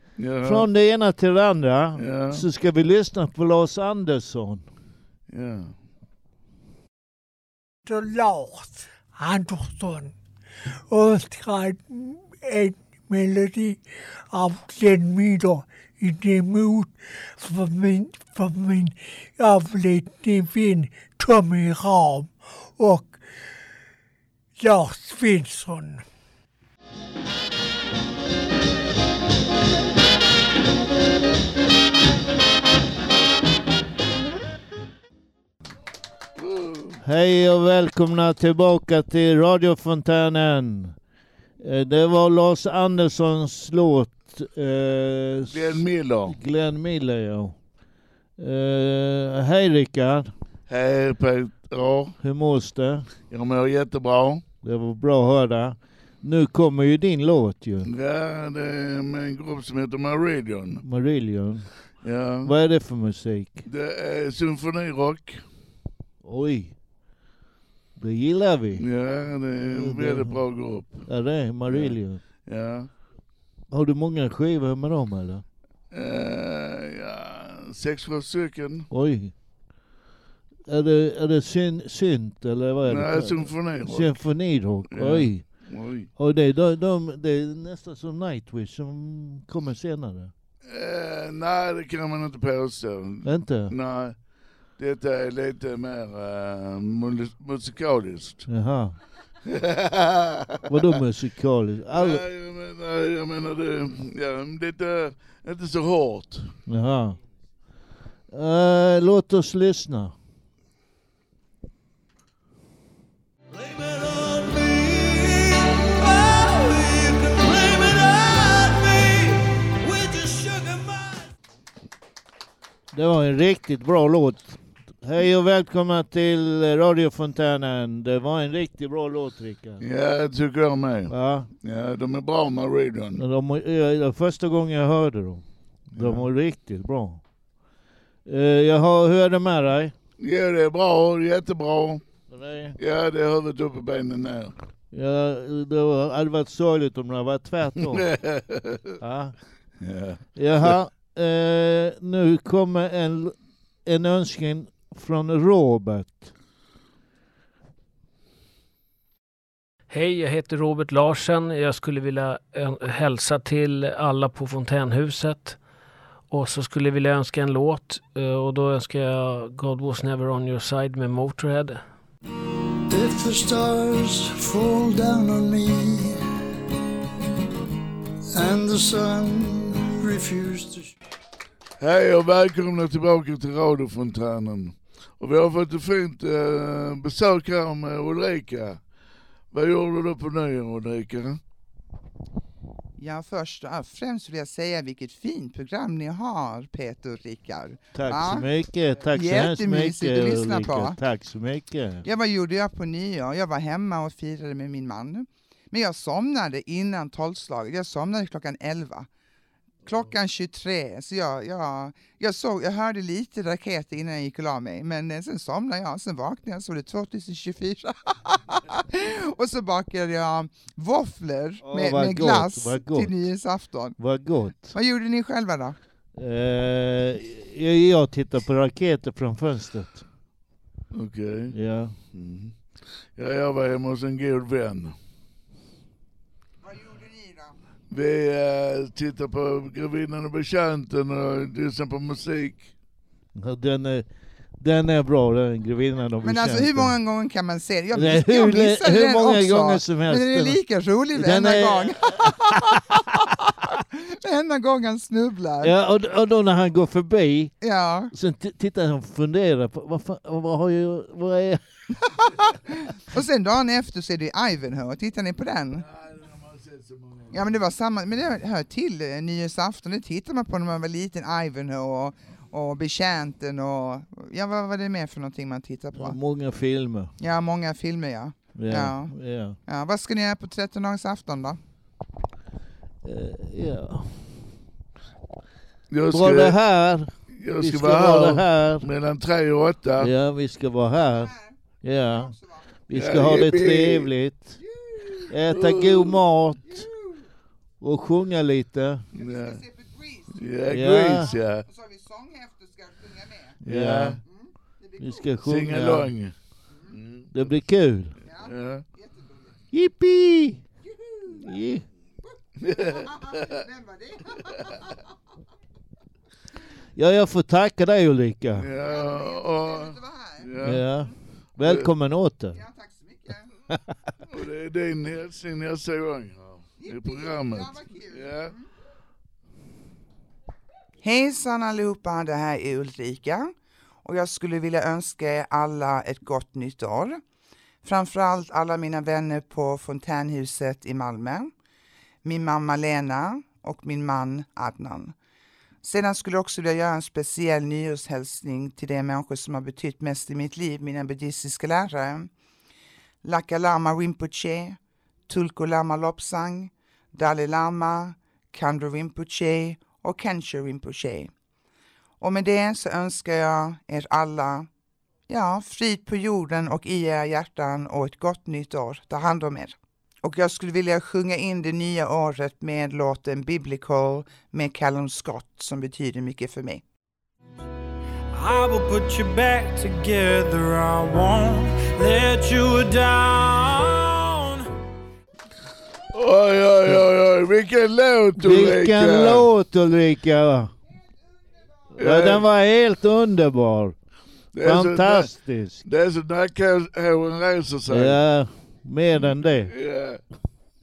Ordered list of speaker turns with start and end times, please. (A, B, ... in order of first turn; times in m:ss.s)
0:00.2-0:00.7 A
0:00.4-0:04.7 B
0:02.0-0:02.4 A
0:05.3-0:05.7 A
0:07.8-0:10.1 C
0:10.9-0:23.2 C
0:24.6-0:26.1 C
0:36.4-0:37.0 A
0:37.0-0:41.0 B
0:41.6-0:47.6 B
0:45.5-0:46.4 A
0:48.4-0:50.3 B
0:50.7-0:52.1 A
0:52.2-0:53.1 B
0:53.3-0:54.4 A
0:54.6-0:57.9 B
0:57.8-1:00.8 A
1:00.8-1:01.7 B
1:02.0-1:02.5 A
1:02.4-1:03.6 B
1:03.6-1:05.4 A
1:06.2-1:06.7 B
1:08.0-1:08.8 B
1:08.8-1:11.0 A
1:09.6-1:10.4 B
1:11.1-1:12.2 B
1:11.7-1:12.9 A
1:13.7-1:15.4 B
1:15.9-1:18.9 A
1:18.9-1:19.3 B
1:20.7-1:25.6 B
1:22.8-1:26.1 A
1:26.2-1:30.3 B
1:30.6-1:34.2 A
1:33.2-1:33.7 B
1:34.8-1:38.5 A
1:38.5-1:39.0 B
1:39.4-1:40.7 A
1:40.7-1:42.2 B
1:41.9-1:46.5 A
1:46.7-1:47.2 B
1:48.3-1:50.1 B
1:53.6-2:01.2 D
2:02.9-2:09.8 B
2:09.8-2:13.2 A
2:11.1-2:11.5 B
2:13.2-2:17.2 B
2:15.9-2:16.2 A
2:18.2-2:19.9 B
2:20.2-2:22.0 A
2:22.3-2:22.8 B
2:22.8-2:24.5 A
2:24.9-2:28.1 B
2:28.0-2:28.9 A
2:29.0-2:29.3 B
2:29.8-2:30.7 A
2:30.3-2:36.3 B
2:39.9-2:45.6 E
2:46.3-2:51.8 E
2:52.9-2:56.2 D
2:58.3-3:00.9 D
3:01.8-3:08.8 A
3:09.5-3:11.4 A
3:13.0-3:18.4 F
3:17.9-3:22.0 B
3:19.1-3:21.0 F
3:22.0-3:29.1 F
3:29.8-3:44.0 F
3:41.6-3:43.2 B
3:44.0-3:44.7 B
3:44.7-3:45.8 F
3:46.2-3:50.0 B
3:50.9-3:51.5 A
3:51.5-3:52.0 B
3:52.1-3:52.6 A
3:53.1-3:54.9 A
3:56.6-3:57.5 F
3:57.9-4:02.7 A
4:03.3-4:04.1 B
4:04.6-4:07.0 B
4:06.2-4:15.7 F
4:07.9-4:10.6 B
4:11.1-4:12.4 B
4:15.6-4:17.6 B
4:17.6-4:18.1 F
4:18.1-4:21.6 B
4:22.7-4:25.8 F
4:25.8-4:27.5 A
4:27.3-4:36.2 F
4:36.0-4:37.1 B
4:37.2-4:41.6 F
4:38.5-4:39.6 B
4:43.0-4:44.4 B
4:45.9-4:46.6 A
4:46.1-4:48.8 B
4:47.3-4:50.1 A
4:50.0-4:52.4 B
4:51.2-4:51.5 F
4:52.2-4:52.6 F
4:52.9-4:54.6 B
4:52.9-4:54.1 A
4:54.8-4:55.0 F
4:55.3-4:56.8 B
4:55.5-4:56.2 A
4:57.8-4:59.0 B
4:59.1-4:59.6 A
4:59.2-5:00.4 F
5:00.3-5:01.6 A
5:00.7-5:01.3 B
5:01.6-5:03.6 F
5:03.6-5:04.2 B
5:03.6-5:04.2 A
5:04.4-5:05.1 F
5:05.0-5:06.1 B
5:05.4-5:06.3 A
5:06.9-5:07.3 A
5:07.3-5:08.2 B
5:08.3-5:09.4 F
5:08.4-5:08.8 A
5:09.7-5:10.6 B
5:10.9-5:11.2 F
5:11.3-5:11.8 B
5:12.6-5:13.4 A
5:12.7-5:14.7 F
5:17.0-5:18.6 B
5:18.5-5:20.8 A
5:18.8-5:21.1 F
5:20.6-5:22.6 B
5:22.6-5:23.5 F
5:24.2-5:28.5 A
5:26.8-5:28.5 F
5:31.0-5:33.5 F
5:34.0-5:37.2 F
5:37.8-5:41.5 F
5:42.2-5:45.1 F
5:45.8-5:52.3 F
5:53.2-6:01.3 F
6:02.2-6:04.7 F
6:05.3-6:16.8 F
6:18.3-6:24.6 G
6:26.1-6:29.5 A
6:28.4-6:30.7 B
6:32.0-6:33.9 B
6:32.0-6:32.4 A
6:34.5-6:35.3 A
6:34.6-6:35.8 B
6:35.8-6:38.2 A
6:37.9-6:39.7 B
6:39.7-6:40.2 A